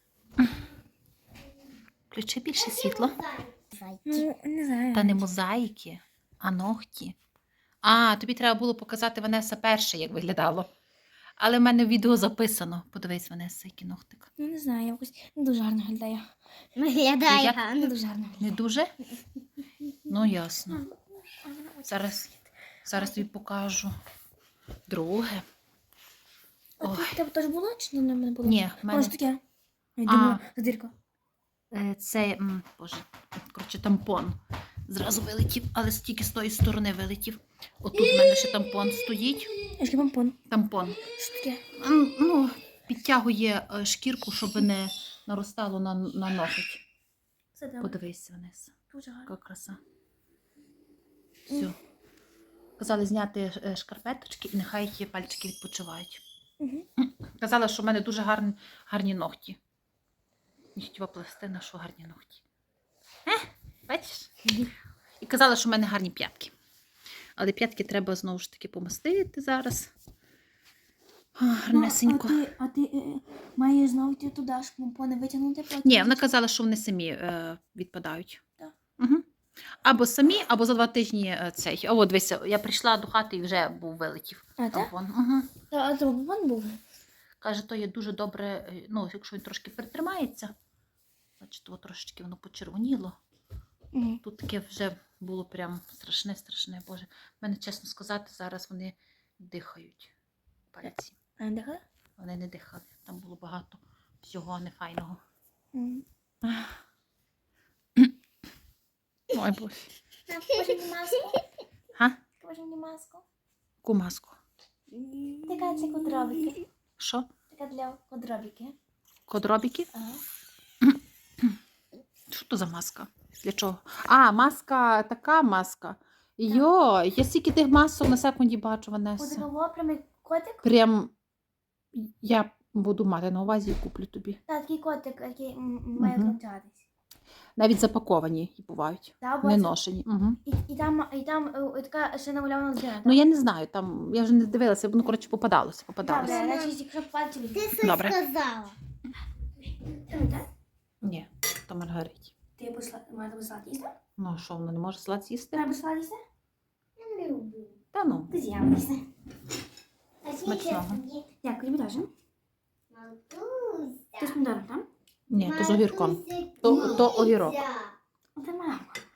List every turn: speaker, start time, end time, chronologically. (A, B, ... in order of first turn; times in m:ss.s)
0:02.1-0:03.2 A
0:03.0-0:04.2 B
0:04.0-0:05.2 C
0:04.9-0:07.2 A
0:07.8-0:10.7 A
0:11.4-0:14.3 A
0:14.4-0:16.3 C
0:16.7-0:17.9 B
0:17.3-0:17.6 A
0:17.6-0:18.5 C
0:18.4-0:18.9 A
0:20.0-0:20.8 A
0:21.4-0:22.2 C
0:21.8-0:22.3 A
0:22.8-0:23.9 A
0:24.9-0:25.4 A
0:26.8-0:29.4 C
0:26.8-0:27.2 A
0:28.4-0:29.1 A
0:30.0-0:30.9 C
0:30.0-0:30.4 A
0:31.7-0:39.5 A
0:39.7-0:40.4 C
0:40.5-0:41.0 A
0:41.0-0:41.6 C
0:41.7-0:46.8 A
0:47.6-0:48.0 C
0:47.8-0:48.7 A
0:48.9-0:49.3 C
0:49.2-0:49.8 A
0:51.5-0:51.8 A
0:52.8-0:56.2 A
0:56.6-0:56.8 C
0:57.0-0:59.6 A
1:00.8-1:02.4 A
1:03.2-1:04.6 A
1:05.2-1:06.5 A
1:07.4-1:09.9 A
1:11.4-1:12.5 A
1:11.7-1:16.2 C
1:15.8-1:18.4 A
1:19.0-1:19.2 A
1:19.8-1:25.5 A
1:24.6-1:24.9 C
1:25.7-1:26.8 C
1:27.4-1:30.5 A
1:31.4-1:33.2 A
1:33.9-1:34.2 C
1:34.2-1:40.1 A
1:40.7-1:41.2 A
1:41.4-1:41.8 C
1:42.2-1:45.2 A
1:45.7-1:46.0 C
1:46.4-1:46.7 A
1:49.3-1:49.9 A
1:50.3-1:50.8 B
1:50.4-1:51.4 C
1:52.4-1:53.2 C
1:53.8-1:54.4 A
1:55.4-1:56.6 C
1:57.0-1:57.3 A
1:57.5-1:58.7 C
1:59.3-1:59.9 A
1:59.9-2:00.2 C
2:00.8-2:01.6 A
2:02.3-2:09.5 A
2:09.2-2:10.6 C
2:10.6-2:11.1 A
2:11.9-2:14.4 A
2:14.5-2:16.8 C
2:16.0-2:16.4 A
2:17.6-2:20.4 A
2:19.2-2:19.7 C
2:20.4-2:23.2 C
2:23.0-2:26.4 A
2:26.0-2:27.7 C
2:26.1-2:26.7 B
2:27.5-2:28.8 B
2:27.8-2:28.2 A
2:29.6-2:30.5 C
2:31.0-2:32.3 A
2:32.6-2:33.9 C
2:34.2-2:35.7 A
2:35.5-2:36.2 C
2:37.0-2:37.8 B
2:37.9-2:38.3 A
2:38.3-2:39.0 C
2:40.2-2:41.3 B
2:40.4-2:41.0 A
2:41.4-2:42.1 C
2:42.9-2:44.4 B
2:44.2-2:44.9 C
2:45.3-2:47.6 A
2:45.4-2:47.9 B
2:48.4-2:49.0 C